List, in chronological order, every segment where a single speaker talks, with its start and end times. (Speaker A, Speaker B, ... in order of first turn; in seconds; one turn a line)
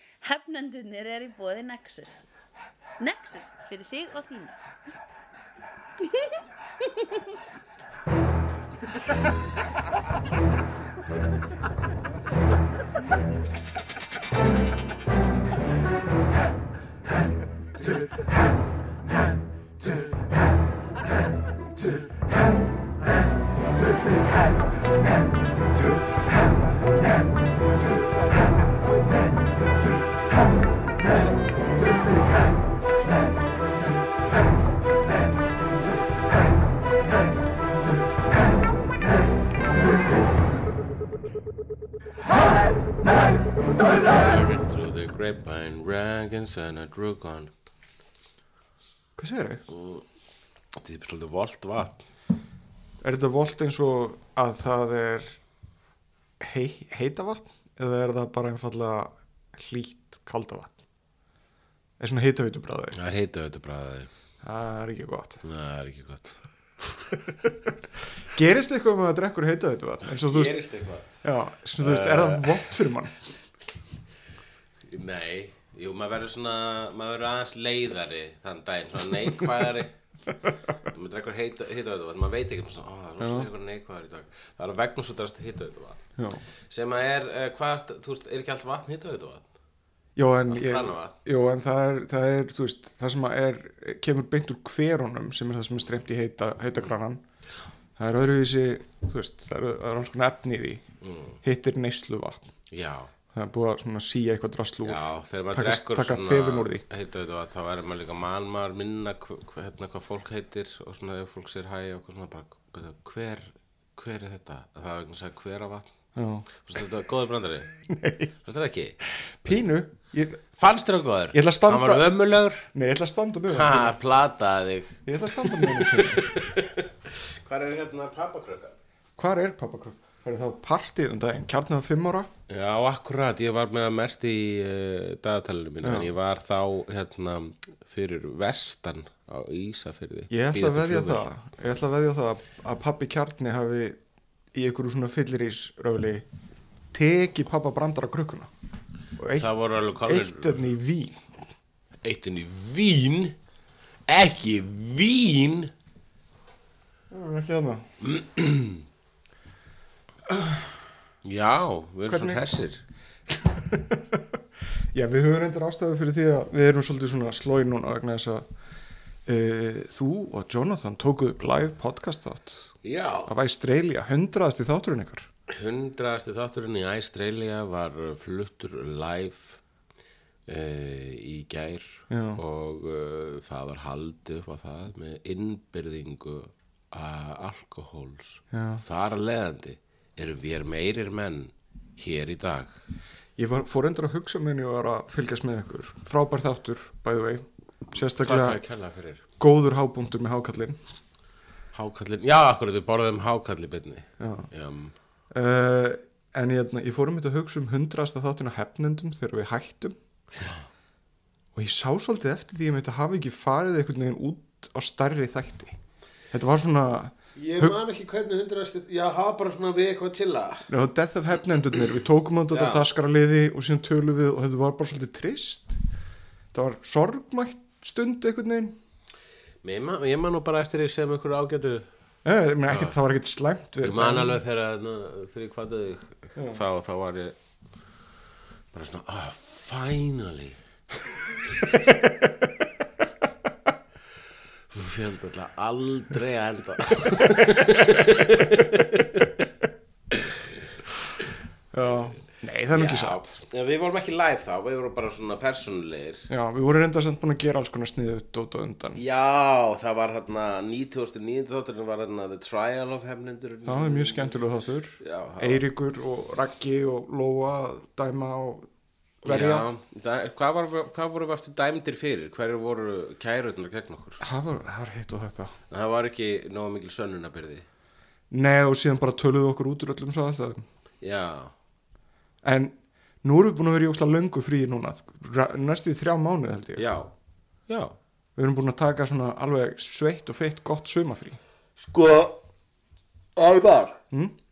Speaker A: 0.2-2.2
Speaker A: 3.0-4.5
Speaker B: 44.0-47.5
Speaker C: 49.2-49.6
Speaker B: 49.7-50.0
Speaker B: 50.7-52.0
Speaker C: 53.0-55.4
Speaker C: 56.4-60.8
Speaker C: 62.0-63.0
Speaker B: 62.9-64.1
Speaker C: 64.4-65.4
Speaker B: 65.4-66.4
Speaker C: 67.3-67.7
Speaker C: 68.3-70.6
Speaker B: 70.1-71.1
Speaker C: 71.2-73.2
Speaker B: 71.8-72.7
Speaker B: 74.9-80.0
Speaker B: 80.8-86.0
Speaker C: 83.2-83.5
Speaker C: 86.2-86.4
Speaker B: 86.7-89.5
Speaker C: 90.2-97.2
Speaker B: 90.5-91.2
Speaker C: 98.0-100.9
Speaker B: 101.0-101.4
Speaker C: 101.4-102.5
Speaker B: 102.7-103.1
Speaker C: 103.3-106.8
Speaker B: 104.8-115.9
Speaker C: 116.2-116.5
Speaker B: 116.5-117.7
Speaker C: 117.9-118.3
Speaker B: 118.4-119.0
Speaker C: 119.2-120.5
Speaker B: 120.6-122.7
Speaker C: 121.3-122.1
Speaker C: 122.7-124.0
Speaker B: 123.5-128.8
Speaker C: 125.1-126.3
Speaker C: 129.2-132.3
Speaker B: 132.5-141.2
Speaker C: 135.8-136.1
Speaker C: 140.3-144.0
Speaker C: 144.5-146.2
Speaker C: 146.9-148.5
Speaker C: 149.2-149.5
Speaker B: 149.4-150.6
Speaker C: 150.0-151.2
Speaker B: 152.0-153.4
Speaker B: 154.1-155.7
Speaker C: 157.1-157.9
Speaker B: 158.0-158.8
Speaker B: 161.2-162.8
Speaker C: 162.1-162.4
Speaker C: 163.4-164.2
Speaker C: 164.9-168.5
Speaker C: 169.2-175.3
Speaker B: 172.8-173.3
Speaker B: 175.5-179.6
Speaker B: 180.5-192.8
Speaker C: 182.1-182.4
Speaker C: 188.5-188.8
Speaker C: 193.4-198.6
Speaker B: 198.2-199.2
Speaker C: 199.4-200.8
Speaker B: 201.7-205.0
Speaker C: 204.2-204.5
Speaker C: 205.3-210.0
Speaker B: 210.4-210.6
Speaker C: 211.6-215.8
Speaker C: 216.3-217.8
Speaker B: 217.4-220.7
Speaker C: 220.7-225.8
Speaker B: 222.5-222.9
Speaker C: 226.5-228.8
Speaker B: 229.6-231.9
Speaker C: 232.2-234.4
Speaker B: 232.7-233.0
Speaker B: 233.8-237.4
Speaker C: 236.4-236.6
Speaker B: 238.7-241.7
Speaker B: 244.7-249.3
Speaker C: 247.2-249.0
Speaker B: 250.1-250.4
Speaker C: 251.7-253.3
Speaker B: 252.7-256.3
Speaker C: 256.3-259.0
Speaker B: 259.0-264.4
Speaker C: 263.6-268.7
Speaker B: 265.0-265.6
Speaker C: 269.2-269.6
Speaker B: 269.2-274.2
Speaker C: 274.2-275.6
Speaker B: 275.7-277.6
Speaker C: 278.3-280.6
Speaker B: 281.0-281.5
Speaker C: 282.4-286.9
Speaker B: 286.8-287.1
Speaker B: 287.7-287.9
Speaker C: 288.4-291.4
Speaker B: 291.8-292.4
Speaker B: 293.4-294.0